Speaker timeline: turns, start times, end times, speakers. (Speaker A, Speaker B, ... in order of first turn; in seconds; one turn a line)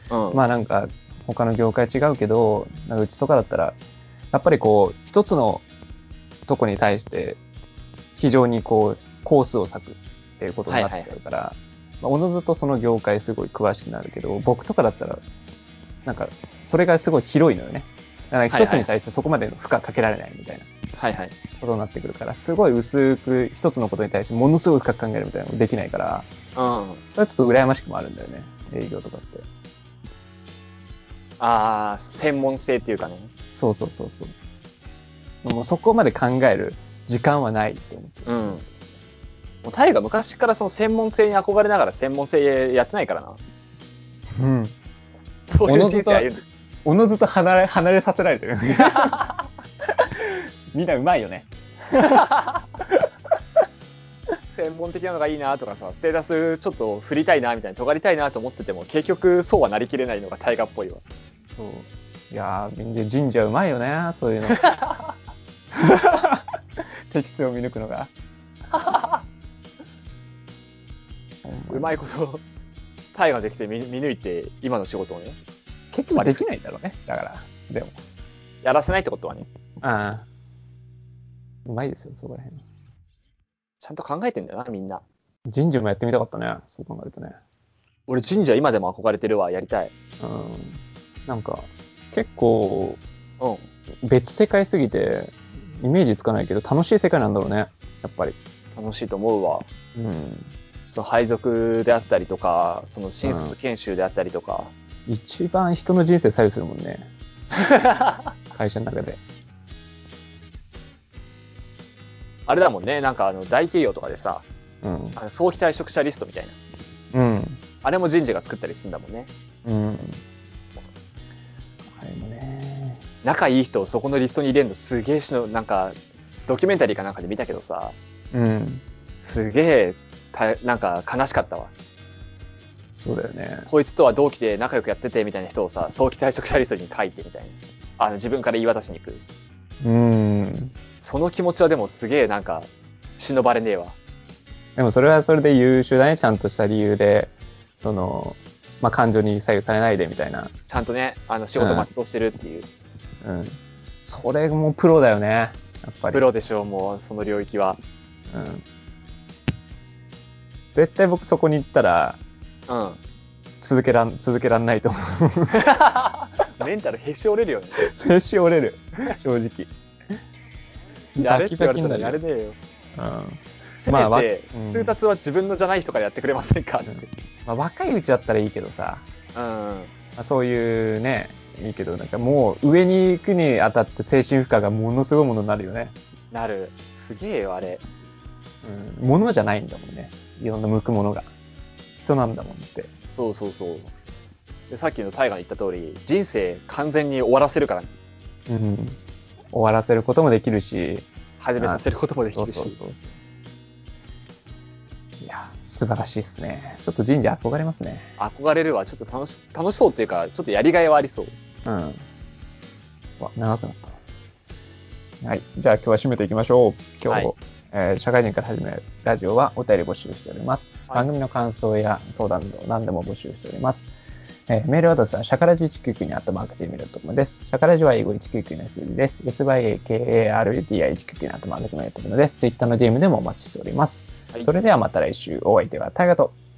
Speaker A: 0.1-0.4
Speaker B: 0.3-3.8
Speaker B: 4.3-5.6
Speaker B: 6.5-7.4
Speaker B: 8.2-20.7
Speaker A: 10.7-11.1
Speaker A: 18.5-18.9
Speaker A: 21.0-21.4
Speaker B: 21.6-26.3
Speaker A: 26.6-27.0
Speaker B: 27.1-29.4
Speaker A: 31.4-33.3
Speaker B: 33.5-34.3
Speaker B: 35.4-38.6
Speaker A: 38.3-38.6
Speaker A: 39.6-43.4
Speaker B: 44.4-44.7
Speaker A: 45.5-46.4
Speaker B: 45.7-46.3
Speaker B: 46.9-49.2
Speaker A: 48.8-49.4
Speaker B: 49.9-52.3
Speaker A: 52.0-52.7
Speaker B: 52.8-53.1
Speaker A: 54.5-61.0
Speaker B: 61.6-64.6
Speaker A: 64.5-65.1
Speaker B: 65.7-66.6
Speaker B: 67.1-68.1
Speaker A: 68.7-69.2
Speaker B: 71.4-72.0
Speaker A: 71.7-72.4
Speaker A: 73.2-75.4
Speaker B: 75.9-78.0
Speaker A: 76.2-76.4
Speaker A: 78.6-79.5
Speaker B: 79.8-80.2
Speaker B: 81.7-82.6
Speaker A: 83.8-85.0
Speaker B: 85.5-87.4
Speaker A: 88.1-89.9
Speaker B: 90.2-93.0
Speaker A: 93.4-93.7
Speaker B: 94.0-98.4
Speaker A: 98.7-99.7
Speaker B: 100.0-100.5
Speaker A: 100.9-104.7
Speaker B: 103.2-103.5
Speaker B: 105.1-107.1
Speaker A: 107.5-108.3
Speaker B: 108.5-109.2
Speaker A: 112.5-114.5
Speaker B: 114.8-115.2
Speaker A: 115.2-116.6
Speaker B: 117.1-117.6
Speaker A: 117.8-119.3
Speaker B: 119.7-120.2
Speaker B: 121.9-123.0
Speaker A: 123.2-128.0
Speaker B: 128.3-128.8
Speaker A: 129.2-131.7
Speaker B: 133.0-133.7
Speaker A: 133.7-139.2
Speaker B: 139.8-140.7
Speaker A: 141.0-144.0
Speaker B: 144.8-150.5
Speaker A: 150.7-152.7
Speaker B: 151.6-151.9
Speaker B: 153.2-156.2
Speaker A: 156.1-157.8
Speaker B: 158.3-158.6
Speaker B: 160.7-162.2
Speaker A: 162.7-163.0
Speaker B: 163.6-165.6
Speaker A: 165.5-167.9
Speaker B: 167.8-169.7
Speaker B: 171.2-172.2
Speaker A: 171.2-172.6
Speaker B: 172.9-174.9
Speaker A: 173.8-177.1
Speaker B: 176.9-179.1
Speaker A: 179.3-179.9
Speaker B: 180.2-185.9
Speaker A: 186.3-187.8
Speaker B: 188.6-191.3
Speaker B: 192.0-192.9
Speaker A: 193.2-193.9
Speaker A: 194.7-197.9
Speaker B: 198.5-199.0
Speaker B: 199.5-201.1
Speaker A: 201.4-202.8
Speaker B: 201.6-203.1
Speaker B: 205.2-208.1
Speaker A: 208.2-211.3
Speaker B: 211.7-212.0
Speaker B: 213.2-214.0
Speaker B: 215.2-223.9
Speaker B: 224.5-236.3